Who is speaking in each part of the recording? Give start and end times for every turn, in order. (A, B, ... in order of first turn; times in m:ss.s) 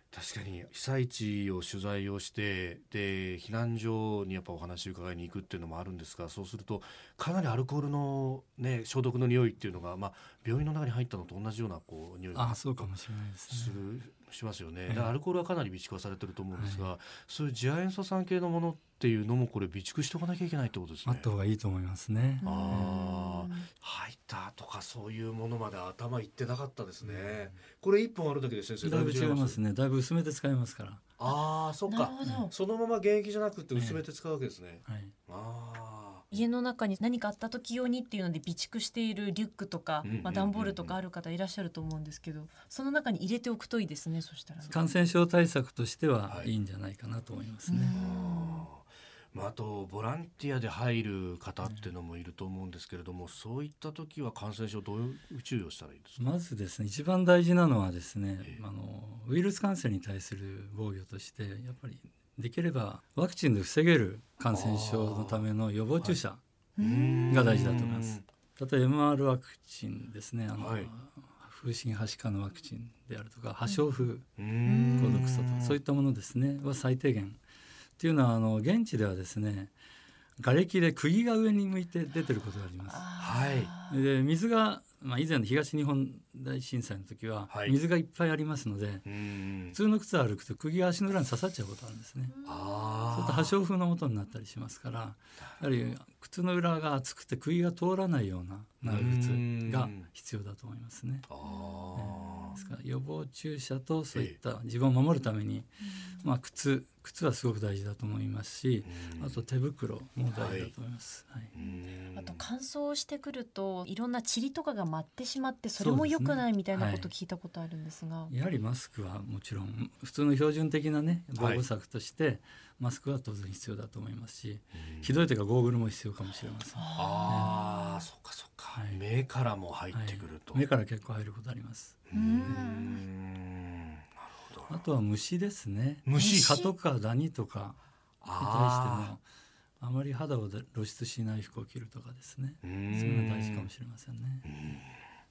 0:00.1-0:13.0 A
0:12.3-0:13.8 B
0:13.5-0:21.3 A
0:16.6-0:16.9 B
0:21.0-0:23.0 B
0:22.4-0:23.7 C
0:22.4-0:29.6 A
0:27.0-0:27.6 B
0:28.8-0:31.0 B
0:31.2-0:36.3 A
0:31.3-0:32.5 C
0:32.2-0:32.5 B
0:33.7-0:34.0 B
0:34.9-0:35.2 B
0:36.3-0:44.8 C
0:40.0-0:41.0 A
0:44.7-0:48.0 B
0:47.7-0:48.7 C
0:47.9-0:56.2 A
0:56.2-1:06.4 B
1:04.5-1:05.5 A
1:06.8-1:07.4 C
1:06.8-1:08.2 A
1:07.3-1:14.3 B
1:10.6-1:10.9 A
1:14.4-1:15.8 A
1:14.6-1:15.2 C
1:15.0-1:17.4 B
1:18.0-1:19.7 B
1:20.4-1:23.1 B
1:22.9-1:24.1 C
1:23.2-1:23.7 A
1:23.8-1:29.1 B
1:27.5-1:27.8 A
1:29.1-1:29.8 A
1:29.7-1:32.3 B
1:32.3-1:32.6 C
1:32.4-1:33.5 A
1:33.1-1:41.3 B
1:38.8-1:40.1 A
1:41.3-1:42.6 A
1:41.4-1:42.8 C
1:42.0-1:51.5 B
1:44.1-1:44.4 A
1:48.8-1:49.4 A
1:50.3-1:50.7 A
1:51.5-1:52.4 A
1:51.6-1:58.3 C
1:55.8-1:57.1 B
1:58.3-2:07.5 B
2:01.4-2:01.6 A
2:04.7-2:05.1 A
2:06.8-2:08.0 C
2:07.0-2:10.6 A
2:08.7-2:09.0 B
2:09.9-2:12.0 B
2:12.1-2:14.8 A
2:12.1-2:13.0 C
2:14.7-2:17.8 B
2:16.0-2:16.6 A
2:16.2-2:16.7 C
2:18.2-2:19.1 A
2:18.3-2:19.2 B
2:19.8-2:24.4 B
2:22.6-2:23.7 A
2:24.4-2:24.9 A